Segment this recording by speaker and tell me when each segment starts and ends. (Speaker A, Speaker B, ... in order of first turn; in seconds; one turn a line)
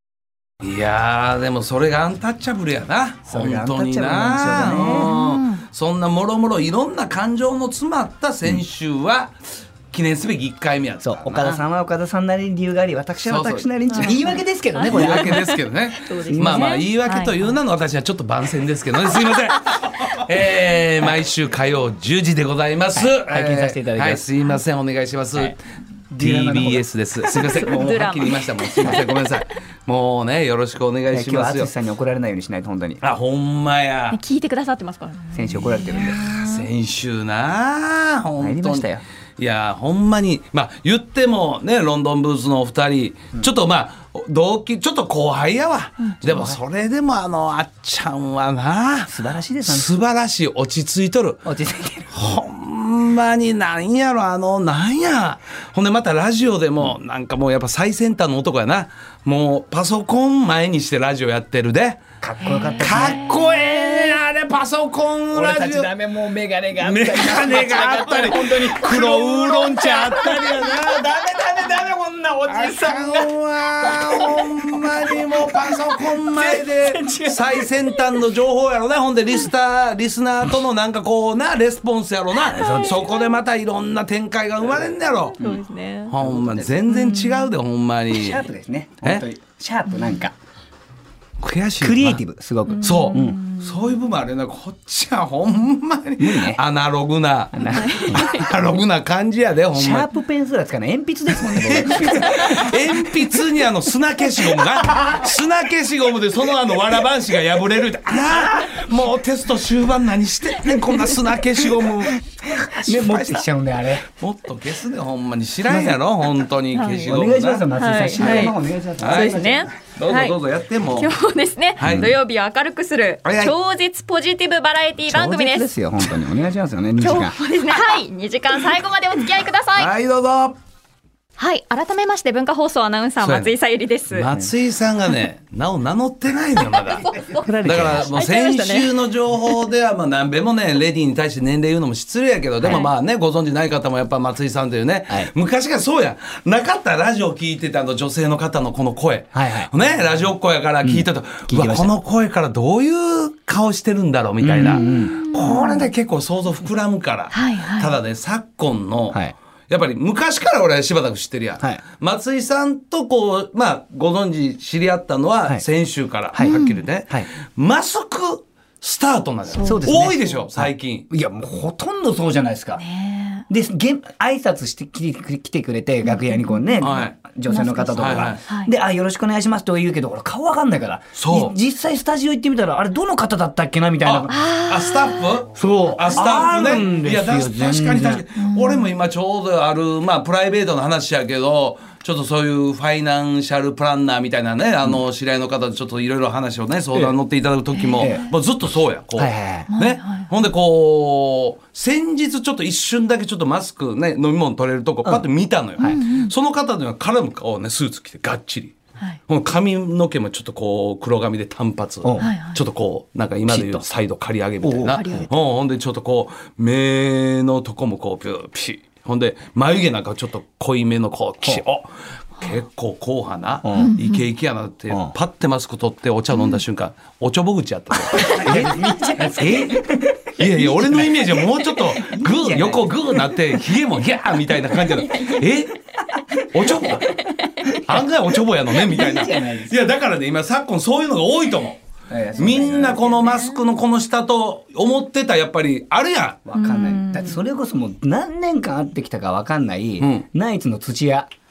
Speaker A: 0.6-9.4
Speaker B: 3.3-5.2
Speaker C: 4.8-5.6
Speaker A: 9.9-11.6
Speaker B: 11.0-15.5
Speaker A: 13.2-13.7
Speaker C: 13.9-17.6
Speaker A: 14.8-25.6
Speaker B: 16.2-16.8
Speaker B: 23.0-24.2
Speaker B: 26.1-26.9
Speaker A: 26.2-31.7
Speaker C: 27.3-29.1
Speaker B: 31.1-33.0
Speaker A: 33.0-34.2
Speaker C: 34.1-36.6
Speaker B: 35.3-36.4
Speaker A: 36.1-51.5
Speaker B: 38.4-39.0
Speaker B: 46.2-46.6
Speaker B: 49.1-50.0
Speaker B: 51.5-52.2
Speaker A: 52.1-62.0
Speaker B: 62.2-64.2
Speaker C: 62.4-63.4
Speaker A: 62.7-65.9
Speaker B: 65.3-75.6
Speaker A: 66.8-71.1
Speaker A: 72.5-85.5
Speaker B: 76.2-78.0
Speaker C: 82.5-83.1
Speaker B: 82.6-83.0
Speaker C: 85.3-86.2
Speaker A: 86.1-88.4
Speaker B: 86.2-86.9
Speaker C: 86.9-87.5
Speaker B: 88.1-90.3
Speaker A: 91.4-92.2
Speaker B: 91.8-93.4
Speaker C: 92.7-93.9
Speaker A: 92.8-100.1
Speaker B: 96.2-96.6
Speaker B: 97.5-98.4
Speaker B: 99.7-102.8
Speaker A: 101.4-113.4
Speaker B: 108.1-108.8
Speaker B: 112.3-114.1
Speaker A: 114.1-121.1
Speaker B: 115.7-116.0
Speaker C: 116.8-117.0
Speaker B: 116.8-119.7
Speaker C: 117.7-118.5
Speaker C: 119.1-120.4
Speaker C: 120.9-125.7
Speaker A: 121.8-122.1
Speaker B: 121.8-122.1
Speaker A: 123.2-123.6
Speaker B: 125.1-127.4
Speaker C: 127.0-129.9
Speaker A: 129.8-130.6
Speaker C: 131.4-134.3
Speaker A: 133.2-133.6
Speaker A: 134.1-171.1
Speaker C: 136.6-139.6
Speaker B: 137.4-138.1
Speaker C: 142.7-142.9
Speaker B: 149.3-149.7
Speaker B: 150.8-151.9
Speaker B: 154.4-155.2
Speaker C: 155.2-155.9
Speaker C: 157.3-158.0
Speaker C: 166.4-166.8
Speaker C: 169.5-169.9
Speaker B: 169.6-172.8
Speaker C: 172.8-173.4
Speaker B: 173.5-184.4
Speaker C: 176.1-178.7
Speaker A: 176.8-177.2
Speaker A: 178.0-178.4
Speaker A: 181.2-181.5
Speaker A: 184.0-228.8
Speaker C: 184.3-185.4
Speaker B: 185.5-188.2
Speaker C: 186.1-186.5
Speaker C: 188.4-188.9
Speaker C: 197.8-198.2
Speaker B: 198.0-198.3
Speaker B: 199.2-199.7
Speaker C: 199.7-200.3
Speaker C: 205.8-206.3
Speaker B: 212.0-212.3
Speaker C: 212.2-212.6
Speaker B: 213.5-213.8
Speaker B: 214.6-215.3
Speaker C: 214.9-215.3
Speaker B: 223.6-224.0
Speaker C: 223.8-224.2
Speaker B: 227.9-233.4
Speaker A: 229.3-229.8
Speaker A: 230.4-235.8
Speaker A: 236.4-241.8
Speaker B: 236.6-238.1
Speaker B: 238.7-239.7
Speaker B: 242.1-243.4
Speaker A: 242.4-246.4
Speaker B: 246.5-251.3
Speaker C: 246.6-247.3
Speaker A: 250.0-250.3